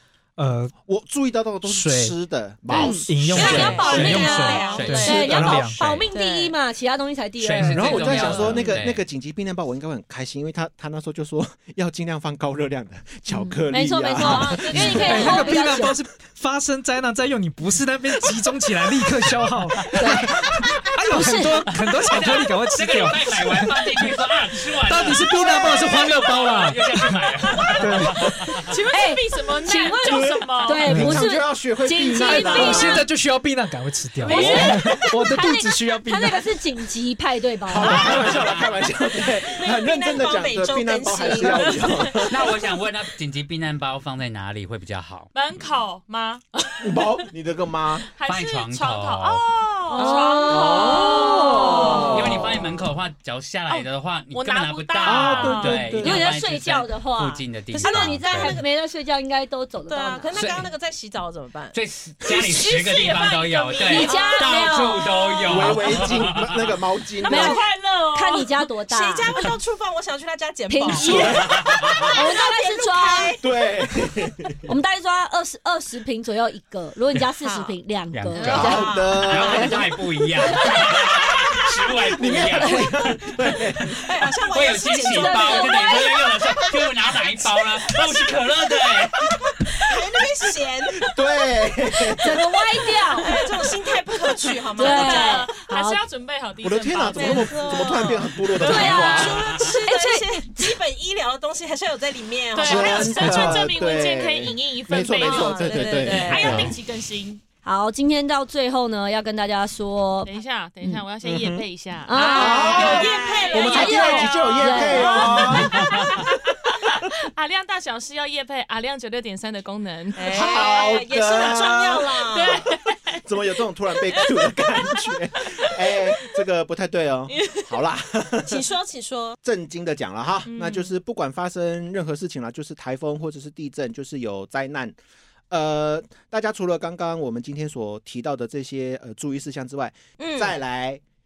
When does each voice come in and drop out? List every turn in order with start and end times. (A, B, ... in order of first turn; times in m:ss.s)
0:00.4-0:00.7 A
0:00.8-0:04.3 B
0:01.6-0:02.2 A
0:02.7-0:08.8 C
0:03.1-0:05.8 A
0:03.3-0:06.5 D
0:04.0-0:05.6 E
0:05.1-0:05.4 B
0:07.4-0:09.0 E
0:07.6-0:15.4 B
0:08.0-0:08.8 D
0:13.3-0:16.0 C
0:14.2-0:15.7 D
0:14.9-0:24.2 A
0:19.9-0:20.3 B
0:20.0-0:20.3 C
0:21.0-0:21.7 C
0:21.8-0:28.7 E
0:24.8-0:27.1 A
0:27.8-0:28.4 A
0:28.6-0:30.9 F
0:28.9-0:33.1 C
0:30.0-0:33.1 B
0:30.8-0:31.2 A
0:32.3-0:36.5 A
0:34.2-0:34.9 B
0:34.2-0:38.2 C
0:34.3-0:34.8 F
0:37.7-0:42.5 B
0:37.8-0:38.7 E
0:39.5-0:42.1 D
0:41.4-0:42.1 F
0:42.3-0:45.3 E
0:45.3-0:47.3 F
0:46.8-0:48.0 B
0:48.0-0:52.0 F
0:48.2-0:49.4 E
0:49.9-0:52.3 C
0:49.9-0:52.3 D
0:51.6-0:52.6 B
0:51.9-0:58.6 E
0:53.7-0:56.0 F
0:55.0-0:56.3 B
0:56.0-1:00.5 C
0:57.7-0:58.7 D
0:59.9-1:05.9 D
1:00.3-1:00.7 E
1:01.7-1:06.8 E
1:03.8-1:05.1 C
1:05.5-1:07.6 B
1:07.2-1:13.7 D
1:07.2-1:09.3 C
1:10.7-1:13.3 C
1:10.9-1:12.1 E
1:11.0-1:11.5 B
1:13.4-1:14.6 B
1:14.7-1:18.9 C
1:17.4-1:17.8 D
1:18.1-1:29.3 E
1:18.4-1:18.8 F
1:18.4-1:19.8 D
1:18.4-1:19.9 B
1:20.4-1:20.9 C
1:22.0-1:24.0 B
1:23.9-1:28.5 D
1:25.1-1:26.1 C
1:29.2-1:35.6 D
1:31.0-1:32.4 B
1:32.2-1:33.3 C
1:34.6-1:39.2 F
1:34.8-1:36.0 C
1:36.6-1:39.4 B
1:37.1-1:43.2 D
1:38.6-1:39.2 C
1:39.2-1:39.8 E
1:39.8-1:40.8 C
1:42.5-1:47.4 F
1:42.6-1:46.8 B
1:43.2-1:43.7 A
1:45.1-1:46.7 D
1:47.6-1:51.0 C
1:50.2-2:00.9 F
1:51.2-1:51.6 B
1:52.0-1:53.0 C
1:52.1-1:55.4 D
1:52.2-1:56.0 B
1:53.6-1:55.6 C
2:00.1-2:02.7 D
2:00.2-2:02.1 B
2:02.3-2:03.2 F
2:03.2-2:08.6 B
2:05.4-2:06.3 F
2:07.3-2:07.6 F
2:08.4-2:09.4 D
2:09.4-2:15.0 B
2:10.4-2:10.9 F
2:15.5-2:21.0 B
2:20.2-2:20.6 D